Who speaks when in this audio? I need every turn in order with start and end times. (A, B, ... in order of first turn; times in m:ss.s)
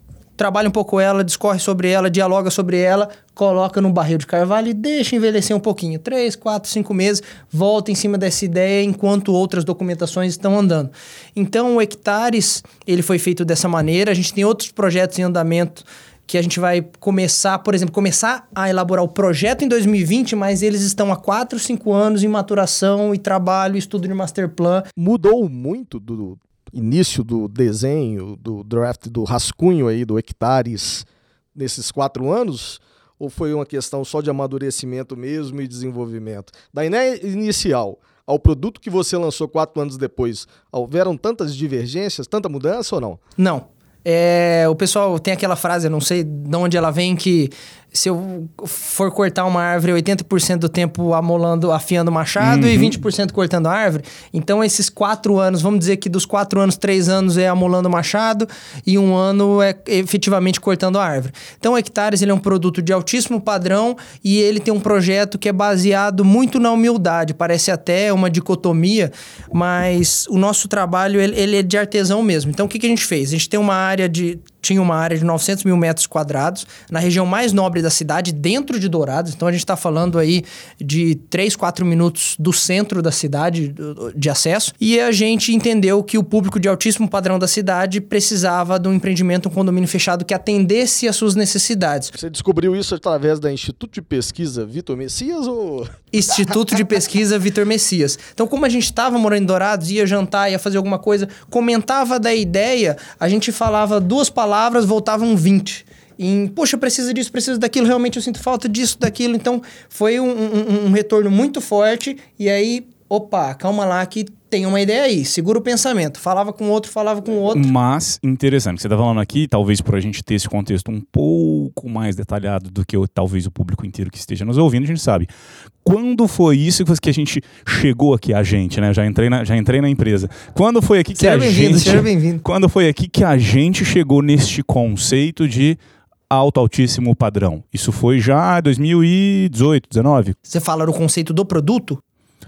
0:00.4-0:24.9 A
0:25.0-0:43.2 B
0:43.4-1:32.1 A
0:52.4-0:53.0 C
1:32.1-1:36.5 B
1:36.1-1:57.7 A
1:57.5-2:05.3 C
2:05.8-2:15.8 C
2:11.2-2:12.4 A
2:16.3-2:20.4 C
2:20.5-2:22.0 A